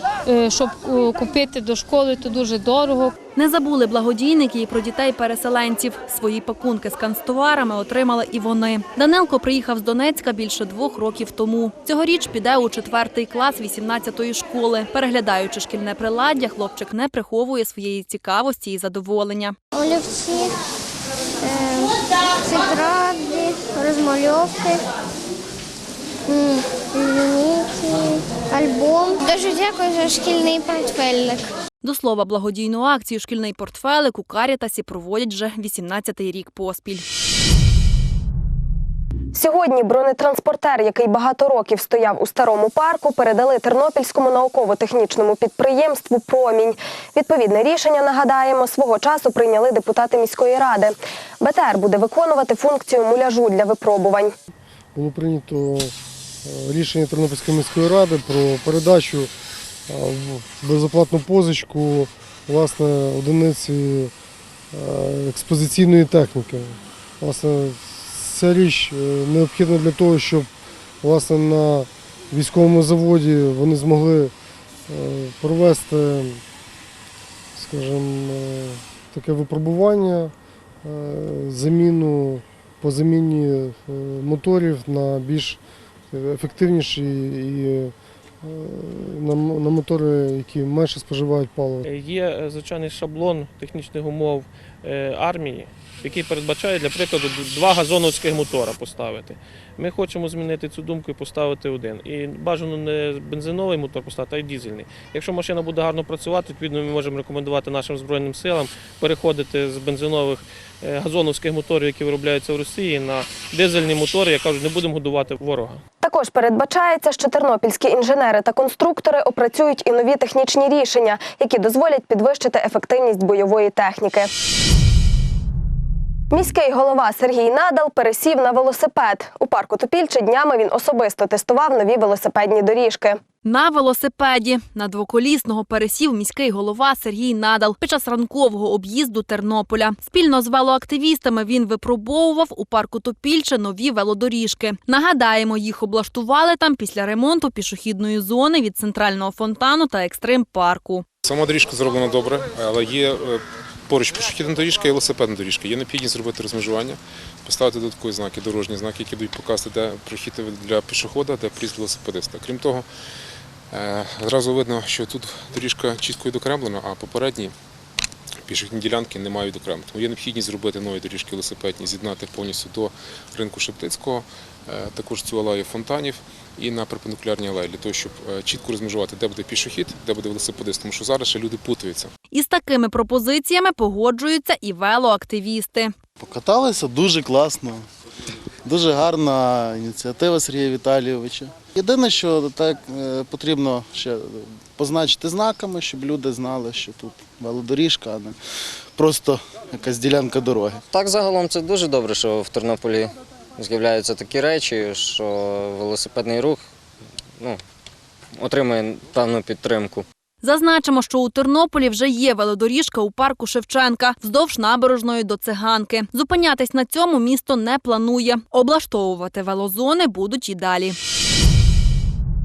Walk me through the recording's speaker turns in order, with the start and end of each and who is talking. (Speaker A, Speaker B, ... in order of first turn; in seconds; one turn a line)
Speaker A: 0.3-3.1
Speaker B: 3.4-19.6
Speaker C: 19.8-20.4
Speaker C: 22.5-24.7
Speaker C: 27.0-27.9
Speaker C: 28.6-31.4
Speaker B: 31.8-37.0
Speaker D: 39.3-54.3
Speaker E: 55.0-55.9
Speaker E: 56.4-59.3
Speaker E: 59.9-64.1
Speaker E: 64.7-74.3
Speaker E: 74.9-76.4
Speaker E: 77.5-91.9
Speaker F: 91.9-115.8
Speaker D: 116.0-124.3
Speaker D: 126.3-133.2
Speaker B: 133.4-151.1
Speaker G: 151.2-162.9
Speaker G: 163.7-167.5
Speaker G: 168.5-182.1
Speaker B: 182.3-185.9
Speaker H: 186.2-187.8
Speaker H: 188.7-198.4
Speaker H: 199.0-200.8
Speaker I: 200.9-206.6
Speaker I: 208.4-210.1
Speaker B: 210.4-221.0